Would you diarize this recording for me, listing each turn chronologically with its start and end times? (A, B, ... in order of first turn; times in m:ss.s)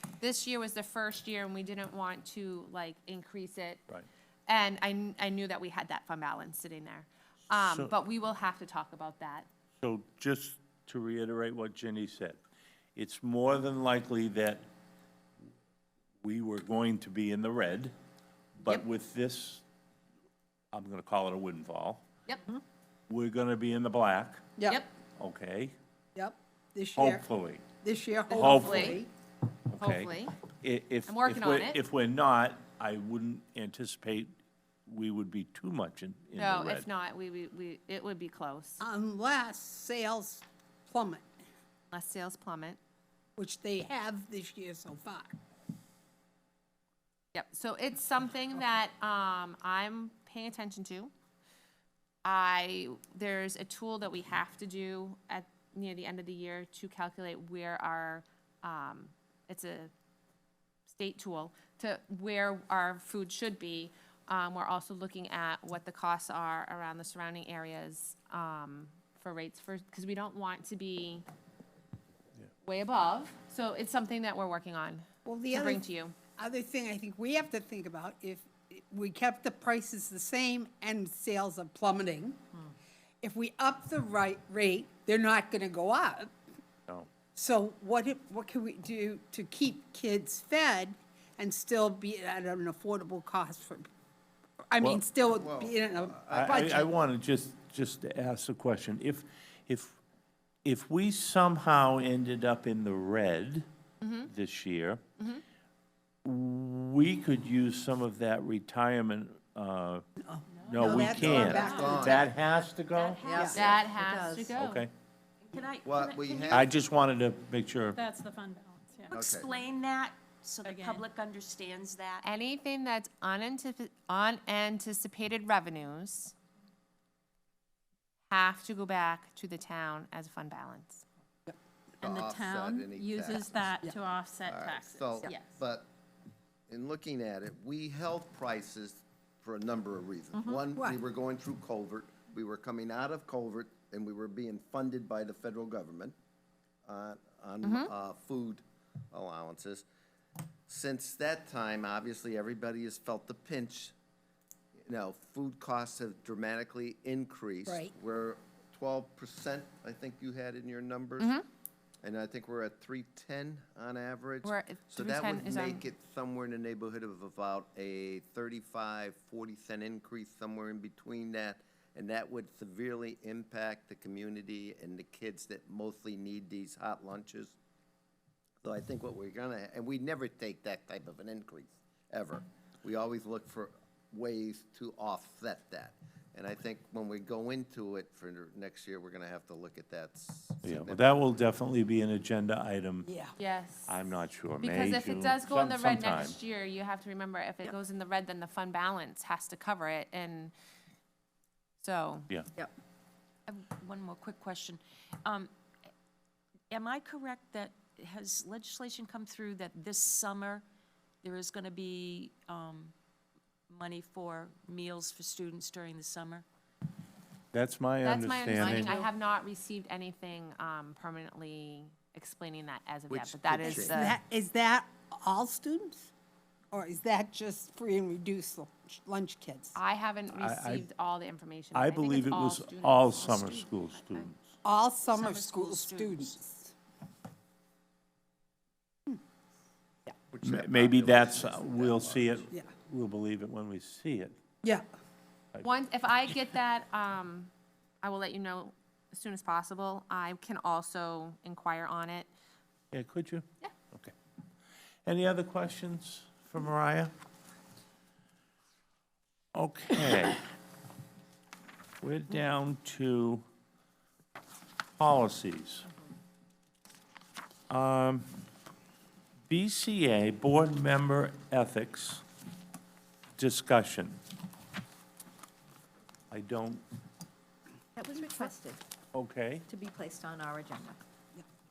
0:00.2-0:03.8 A
0:04.5-0:09.5 A
0:07.5-0:07.9 B
0:09.8-0:12.4 B
0:13.0-0:14.6 B
0:16.2-0:17.9 B
0:18.6-0:19.6 B
0:20.7-0:22.0 B
0:23.1-0:24.5 B
0:24.6-0:24.8 C
0:24.6-0:24.9 A
0:25.2-0:25.7 B
0:26.1-0:27.2 C
0:27.0-0:27.6 B
0:27.8-0:29.1 C
0:28.3-0:28.9 A
0:28.3-0:29.0 B
0:29.7-0:34.3 B
0:29.8-0:30.4 A
0:31.0-0:31.8 A
0:34.8-0:36.9 B
0:36.4-0:38.8 A
0:38.8-0:41.3 C
0:41.9-0:42.8 A
0:43.4-0:45.3 C
0:47.3-0:51.1 A
0:52.2-0:59.9 A
1:00.8-1:11.2 A
1:12.6-1:16.2 A
1:15.2-1:15.8 C
1:16.4-1:22.6 C
1:23.2-1:26.3 C
1:27.3-1:33.9 C
1:34.7-1:36.9 C
1:35.3-1:36.9 D
1:36.3-1:40.0 B
1:40.6-1:43.7 B
1:44.0-1:44.3 A
1:44.3-1:45.0 B
1:45.2-1:45.4 A
1:46.2-1:50.0 B
1:50.2-1:52.2 C
1:50.5-1:51.0 E
1:50.6-1:53.2 B
1:50.9-1:52.3 D
1:51.5-1:52.2 E
1:52.9-1:53.8 E
1:53.2-1:54.6 F
1:53.6-1:54.8 A
1:54.6-1:54.9 B
1:55.4-1:56.7 E
1:55.8-1:56.7 D
1:56.5-1:58.0 B
1:57.9-1:59.2 G
1:59.1-2:02.2 E
1:59.1-1:59.6 D
2:00.6-2:01.0 G
2:02.2-2:06.3 A
2:08.3-2:11.0 A
2:12.0-2:13.8 D
2:12.0-2:15.4 G
2:14.4-2:15.9 D
2:16.7-2:26.1 D
2:26.8-2:29.8 D
2:27.6-2:27.9 A
2:30.7-2:33.9 D
2:34.8-2:41.3 D
2:37.6-2:37.9 C
2:41.2-2:41.4 A
2:42.0-2:57.5 D
2:44.4-2:45.8 A
2:58.6-3:11.0 D
3:10.6-3:13.1 B
3:13.0-3:13.3 C
3:13.4-3:14.0 A
3:13.9-3:16.4 B
3:14.6-3:20.5 A
3:21.8-3:22.3 A
3:23.5-3:25.5 E
3:26.7-3:30.6 E
3:31.2-3:32.9 E
3:33.7-3:36.4 E
3:37.5-3:39.0 B
3:38.0-3:44.2 A
3:43.1-3:44.0 D
3:43.8-3:46.1 C
3:46.7-3:49.8 C
3:49.7-3:53.4 A
3:50.3-3:50.9 B
3:51.7-3:54.5 B
3:53.3-3:54.3 E
3:54.6-3:56.7 C
3:55.1-3:56.4 E
4:00.3-4:02.5 D
4:00.4-4:04.4 B
4:05.6-4:12.3 A
4:12.9-4:14.1 B
4:15.0-4:17.1 B
4:19.5-4:20.4 B
4:22.0-4:23.4 B
4:25.0-4:25.9 B
4:27.7-4:28.3 B
4:29.5-4:32.2 B
4:33.4-4:34.2 B
4:36.3-4:36.8 B
4:38.0-4:38.8 F
4:39.1-4:39.6 B
4:39.7-4:41.0 F